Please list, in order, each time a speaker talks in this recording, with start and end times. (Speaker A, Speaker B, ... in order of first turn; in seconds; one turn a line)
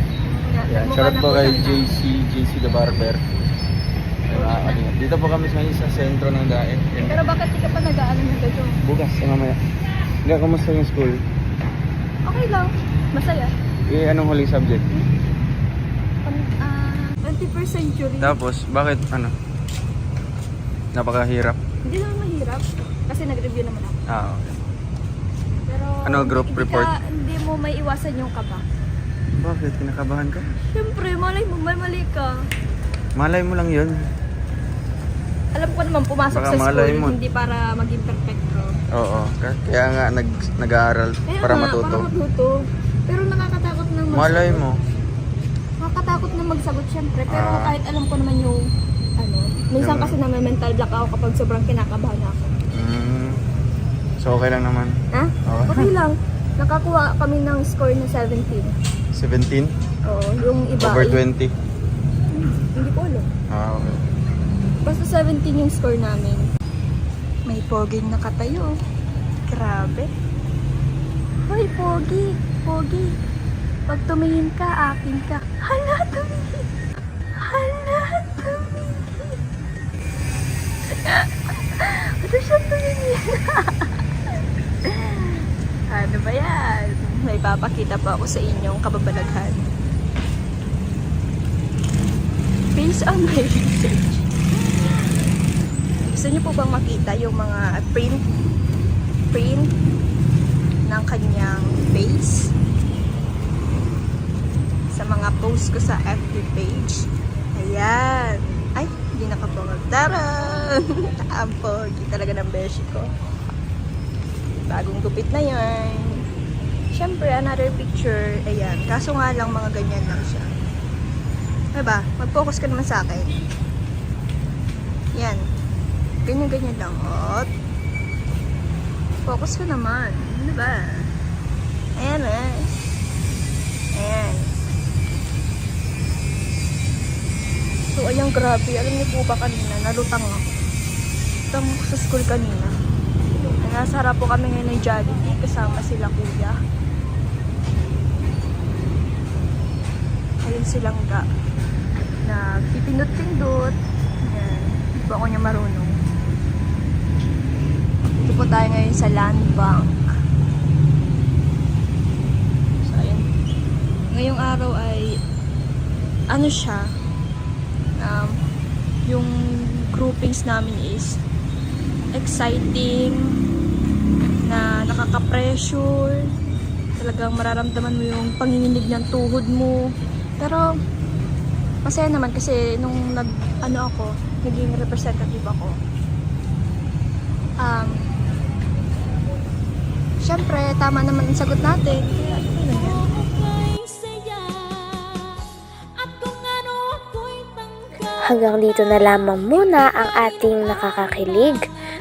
Speaker A: 0.2-2.0
Speaker B: 0.7-3.2
Speaker B: 4.3-7.2
Speaker A: 4.3-4.8
Speaker A: 7.0-8.8
Speaker B: 8.8-9.6
Speaker B: 10.2-11.2
Speaker A: 12.2-13.5
Speaker B: 13.8-14.8
Speaker A: 16.2-18.4
Speaker B: 18.2-19.3
Speaker B: 20.9-21.6
Speaker A: 21.8-24.0
Speaker B: 24.1-24.6
Speaker A: 25.7-28.6
Speaker B: 26.0-26.9
Speaker B: 29.4-30.4
Speaker A: 30.7-32.3
Speaker B: 33.1-34.0
Speaker A: 35.5-38.7
Speaker B: 36.3-37.2
Speaker B: 38.9-42.1
Speaker A: 41.3-44.6
Speaker B: 44.1-44.8
Speaker A: 45.8-48.6
Speaker B: 47.3-47.8
Speaker A: 49.2-52.5
Speaker B: 49.8-50.2
Speaker B: 52.7-53.4
Speaker B: 54.2-55.9
Speaker A: 55.1-58.7
Speaker B: 59.1-59.7
Speaker A: 60.0-61.2
Speaker B: 60.8-61.5
Speaker A: 62.3-63.3
Speaker B: 63.5-64.0
Speaker A: 64.8-66.4
Speaker A: 67.5-68.7
Speaker A: 69.5-70.1
Speaker A: 71.5-73.2
Speaker A: 73.9-76.7
Speaker A: 77.4-79.4
Speaker A: 80.9-83.9
Speaker A: 84.8-89.6
Speaker A: 92.7-94.2
Speaker A: 96.0-98.2
Speaker A: 99.3-99.7
Speaker A: 100.8-102.5
Speaker A: 104.9-113.1
Speaker A: 114.7-116.2
Speaker A: 116.9-120.5
Speaker A: 121.7-123.3
Speaker A: 125.1-125.4
Speaker A: 126.2-127.5
Speaker A: 129.2-131.1
Speaker A: 131.9-132.7
Speaker A: 133.9-134.5
Speaker A: 137.9-140.5
Speaker A: 141.5-142.7
Speaker A: 143.4-146.6
Speaker A: 150.4-151.2
Speaker A: 152.2-155.9
Speaker A: 158.2-160.0
Speaker A: 162.8-163.2
Speaker A: 164.1-165.1
Speaker A: 166.3-166.8
Speaker A: 168.0-168.3
Speaker A: 169.9-171.2
Speaker A: 172.1-173.2
Speaker A: 174.5-176.3
Speaker A: 177.0-179.8
Speaker A: 180.4-180.6
Speaker A: 181.8-185.7
Speaker A: 187.6-187.9
Speaker A: 190.2-193.1
Speaker C: 198.3-201.6